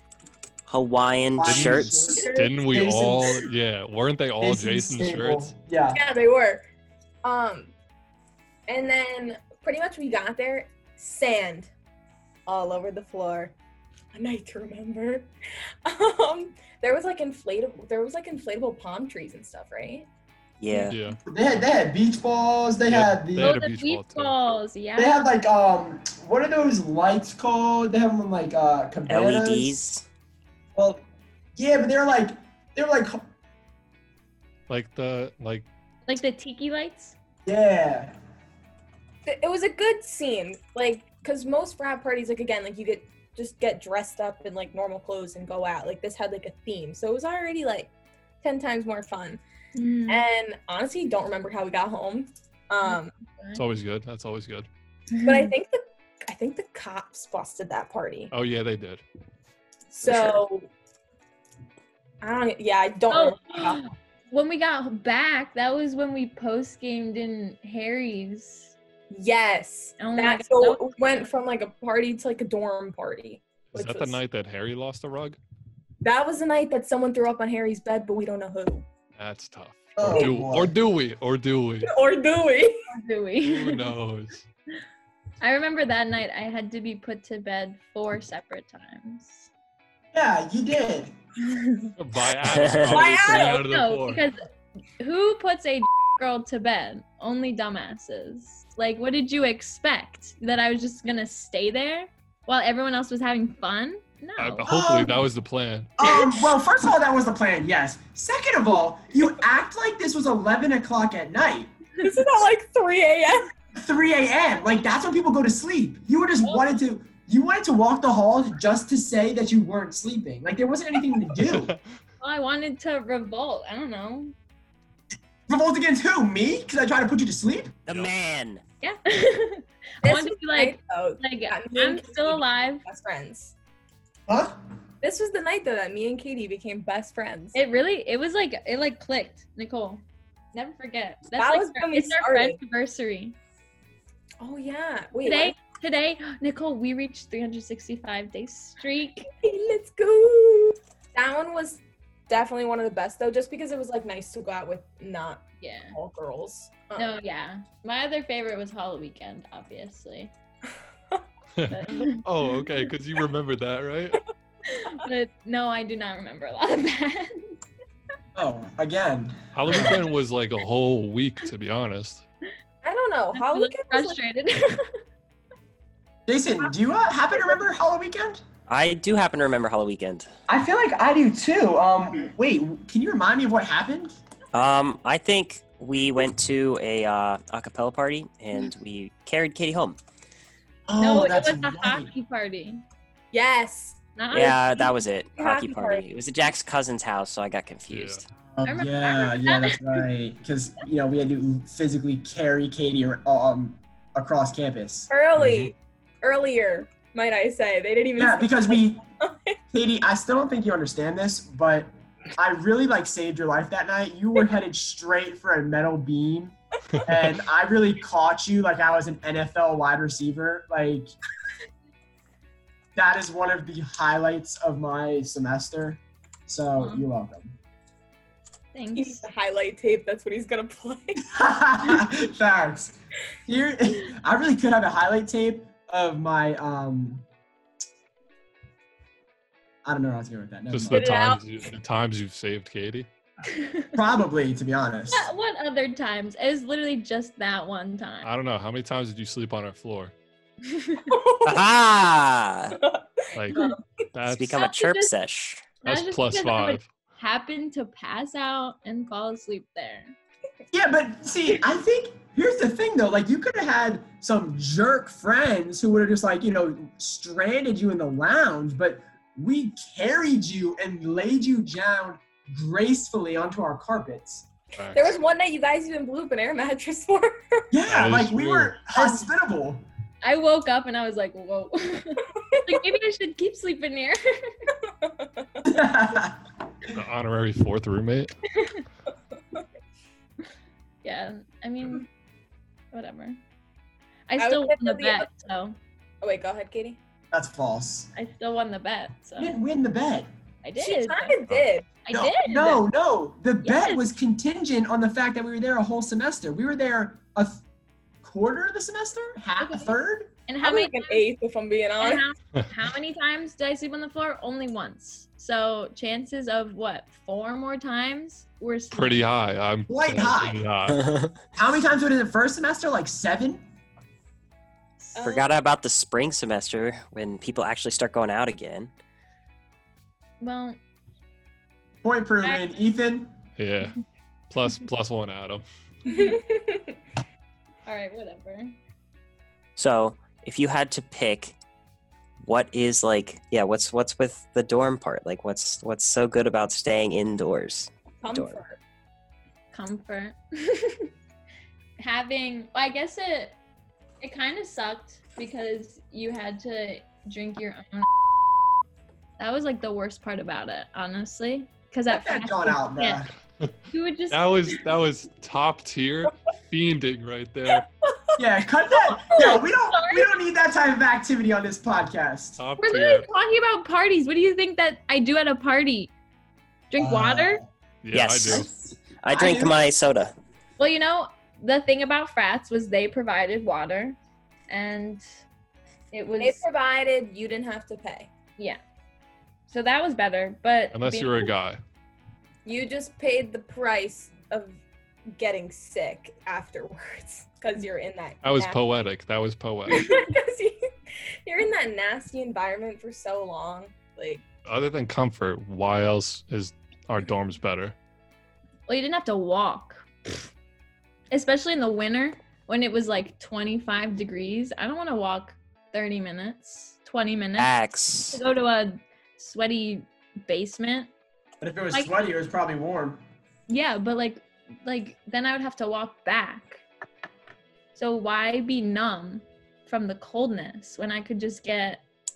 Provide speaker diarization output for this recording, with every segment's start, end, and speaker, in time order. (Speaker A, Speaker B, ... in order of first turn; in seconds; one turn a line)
Speaker A: 0.7-2.1
Speaker B: 1.4-3.5
Speaker C: 1.4-5.5
Speaker D: 2.1-2.8
Speaker B: 4.4-6.0
Speaker D: 5.9-6.7
Speaker D: 7.2-7.7
Speaker D: 8.7-11.7
Speaker D: 12.5-13.5
Speaker D: 14.1-15.3
Speaker D: 15.8-20.1
Speaker A: 20.6-21.0
Speaker C: 20.9-21.2
Speaker B: 21.3-23.6
Speaker C: 22.9-24.5
Speaker E: 23.4-25.2
Speaker B: 25.0-29.8
Speaker A: 29.1-30.1
Speaker B: 30.8-31.0
Speaker B: 31.6-33.2
Speaker C: 34.7-35.7
Speaker E: 36.1-37.1
Speaker B: 37.5-38.1
Speaker D: 39.3-49.4
Speaker E: 49.8-50.2
Speaker D: 50.1-53.1
Speaker E: 52.9-53.6
Speaker C: 53.5-54.7
Speaker E: 55.1-55.5
Speaker D: 55.2-58.3
Speaker C: 58.3-59.0
Speaker D: 59.9-60.7
Speaker A: 60.0-60.4
Speaker D: 62.2-63.8
Speaker E: 63.1-68.7
Speaker D: 69.1-74.2
Speaker E: 70.0-71.3
Speaker C: 73.7-75.4
Speaker D: 76.0-78.9
Speaker C: 79.2-81.9
Speaker B: 80.0-80.8
Speaker D: 80.1-80.3
Speaker D: 81.8-82.8
Speaker E: 82.9-83.9
Speaker C: 83.4-84.5
Speaker E: 85.4-89.5
Speaker B: 90.1-91.1
Speaker E: 91.4-91.9
Speaker C: 92.0-94.2
Speaker A: 92.5-93.0
Speaker D: 92.9-93.6
Speaker E: 93.0-94.4
Speaker E: 95.0-104.7
Speaker C: 104.4-106.1
Speaker B: 104.7-105.2
Speaker B: 106.0-111.7
Speaker D: 112.0-113.5
Speaker B: 113.8-121.8
Speaker E: 116.4-116.7
Speaker C: 121.4-121.8
Speaker E: 122.2-124.3
Speaker B: 125.5-127.8
Speaker A: 127.9-128.6
Speaker E: 128.8-132.8
Speaker D: 130.0-133.5
Speaker B: 134.3-134.6
Speaker D: 135.0-137.6
Speaker E: 137.5-140.0
Speaker E: 140.5-143.4
Speaker D: 141.4-142.6
Speaker D: 144.4-145.6
Speaker E: 145.2-149.3
Speaker D: 149.4-157.2
Speaker E: 155.6-156.0
Speaker E: 157.0-160.3
Speaker C: 161.6-164.2
Speaker E: 161.7-162.2
Speaker E: 164.7-167.6
Speaker B: 168.3-170.1
Speaker C: 169.5-172.2
Speaker D: 172.8-174.2
Speaker E: 173.3-175.0
Speaker B: 176.3-178.4
Speaker A: 178.7-180.3
Speaker B: 180.5-184.1
Speaker A: 184.5-190.0
Speaker B: 190.9-192.1
Speaker E: 191.0-192.8
Speaker D: 193.3-194.0
Speaker E: 194.2-194.9
Speaker A: 194.3-198.2
Speaker D: 195.4-196.1
Speaker C: 197.9-198.2
Speaker B: 198.5-205.6
Speaker E: 198.6-200.0
Speaker D: 205.1-209.6
Speaker B: 208.2-209.0
Speaker B: 209.7-221.1
Speaker B: 222.9-227.6
Speaker E: 226.8-227.1
Speaker E: 228.7-229.2
Speaker D: 229.0-231.5
Speaker B: 231.3-237.2
Speaker B: 239.8-241.1
Speaker C: 240.7-243.1
Speaker D: 240.9-241.4
Speaker E: 243.5-244.0
Speaker B: 243.9-245.3
Speaker E: 245.1-248.3
Speaker C: 248.2-250.1
Speaker E: 250.7-251.1
Speaker D: 251.1-251.7
Speaker A: 251.4-252.8
Speaker D: 252.7-253.8
Speaker C: 253.3-254.6
Speaker A: 254.3-255.7
Speaker E: 254.5-255.1
Speaker C: 255.8-256.9
Speaker E: 255.8-260.2
Speaker B: 260.7-274.5
Speaker C: 274.8-275.1
Speaker D: 274.9-277.7
Speaker B: 277.7-279.9
Speaker C: 277.9-278.8
Speaker E: 280.2-284.6
Speaker D: 282.4-282.8
Speaker D: 284.8-285.7
Speaker B: 285.6-286.4
Speaker C: 286.9-288.3
Speaker E: 291.0-292.1
Speaker E: 292.9-293.4
Speaker E: 294.3-295.8
Speaker D: 294.4-295.3
Speaker D: 296.2-297.0
Speaker B: 297.3-298.1
Speaker E: 298.1-299.6
Speaker B: 299.4-300.3
Speaker E: 300.6-301.4
Speaker D: 300.8-301.9
Speaker E: 302.0-302.9
Speaker B: 302.1-307.6
Speaker E: 303.6-304.1
Speaker B: 308.2-310.3
Speaker E: 309.6-309.9
Speaker E: 310.5-311.3
Speaker D: 310.6-312.2
Speaker E: 312.0-319.3
Speaker C: 318.9-321.0
Speaker B: 319.9-320.6
Speaker A: 320.9-321.3
Speaker B: 321.6-323.6
Speaker D: 325.2-325.5
Speaker A: 325.2-328.9
Speaker E: 330.4-330.8
Speaker B: 332.0-333.3
Speaker E: 332.4-332.8
Speaker C: 333.6-334.0
Speaker C: 334.5-335.6
Speaker E: 336.1-336.4
Speaker D: 336.1-337.0
Speaker E: 337.9-338.7
Speaker A: 339.8-341.6
Speaker A: 342.4-348.6
Speaker D: 348.2-348.8
Speaker E: 349.7-351.1
Speaker E: 352.0-353.6
Speaker E: 354.2-358.1
Speaker E: 359.4-363.3
Speaker B: 362.1-363.3
Speaker E: 363.9-364.6
Speaker C: 364.3-367.9
Speaker D: 368.0-368.4
Speaker B: 368.4-372.6
Speaker E: 368.9-370.4
Speaker C: 372.6-373.3
Speaker E: 372.8-376.1
Speaker E: 376.9-377.6
Speaker B: 377.0-377.7
Speaker C: 378.0-378.7
Speaker A: 378.1-380.3
Speaker B: 379.3-379.7
Speaker E: 380.8-384.2
Speaker E: 384.7-385.2
Speaker E: 386.1-386.6
Speaker D: 386.4-388.3
Speaker E: 389.7-391.5
Speaker C: 390.9-391.8
Speaker D: 392.6-394.8
Speaker D: 395.4-398.8
Speaker C: 398.4-400.2
Speaker D: 399.9-400.8
Speaker D: 401.4-404.4
Speaker C: 404.7-407.9
Speaker E: 408.9-410.5
Speaker E: 411.3-417.7
Speaker A: 417.6-418.4
Speaker E: 418.3-421.1
Speaker B: 421.6-423.2
Speaker E: 421.9-422.2
Speaker E: 423.7-426.8
Speaker E: 427.9-432.0